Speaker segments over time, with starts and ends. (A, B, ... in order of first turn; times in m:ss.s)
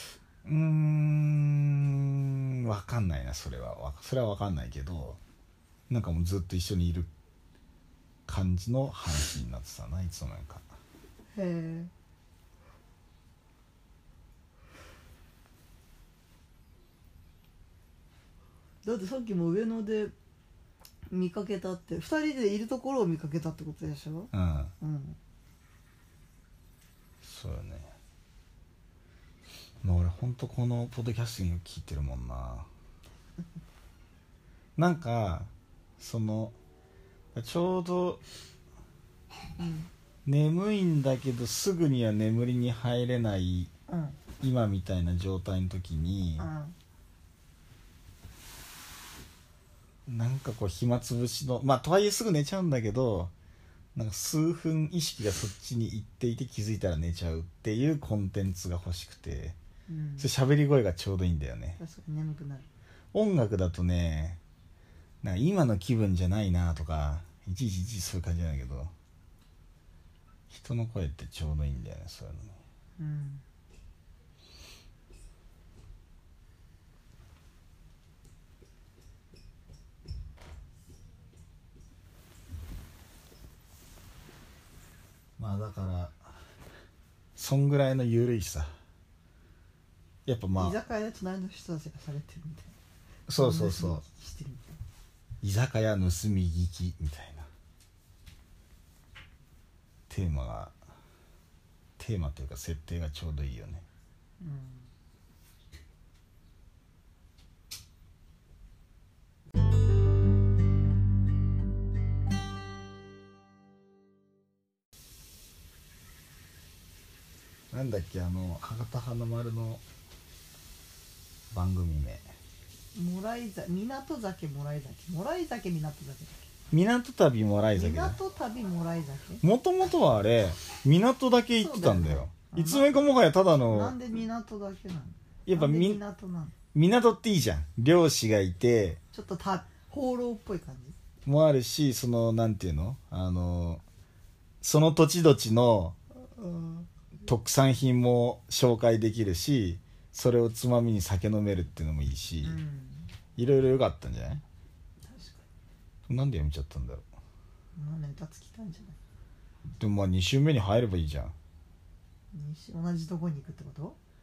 0:00.4-0:05.2 A
0:05.9-0:07.1 A
0:08.3-0:10.7 A
0:11.3-0:11.9 B
0:18.8-0:20.1 B
0:21.1-0:25.2 B
0:24.3-0:24.7 A
0:27.2-0:27.9 A
0:29.8-0:32.7 A
0:34.8-0:36.6 A
0:37.3-0:38.2 A
0:39.6-0:39.9 B
0:40.2-0:43.7 A
0:43.9-0:44.2 B
0:44.4-0:46.5 A
0:46.4-0:46.8 B
0:50.1-0:53.3 A
0:54.0-0:59.6 A
0:59.9-1:00.3 B
1:00.2-1:01.8 A
1:01.8-1:02.7 B
1:03.1-1:04.4 A
1:05.2-1:08.9 A
1:10.5-1:12.6 A
1:13.0-1:13.4 B
1:25.4-1:26.2 A
1:27.4-1:28.7 A
1:30.3-1:30.8 A
1:30.6-1:32.8 B
1:33.3-1:34.0 A
1:33.4-1:34.8 B
1:35.4-1:37.5 A
1:40.1-1:40.8 A
1:42.0-1:43.9 A
1:44.4-1:44.9 B
1:57.7-1:59.8 A
2:01.5-2:02.3 A
2:03.0-2:06.5 B
2:06.7-2:08.2 A
2:07.7-2:09.4 B
2:09.4-2:14.0 A
2:11.6-2:13.0 B
2:13.7-2:16.5 B
2:15.5-2:16.0 A
2:16.7-2:19.0 A
2:19.1-2:21.0 B
2:21.2-2:23.8 A
2:24.6-2:26.0 A
2:26.2-2:26.9 B
2:27.3-2:32.6 A
2:32.4-2:33.1 B
2:33.4-2:34.4 A
2:35.0-2:35.5 B
2:36.1-2:37.0 A
2:37.8-2:39.0 B
2:39.8-2:41.4 A
2:42.3-2:44.0 B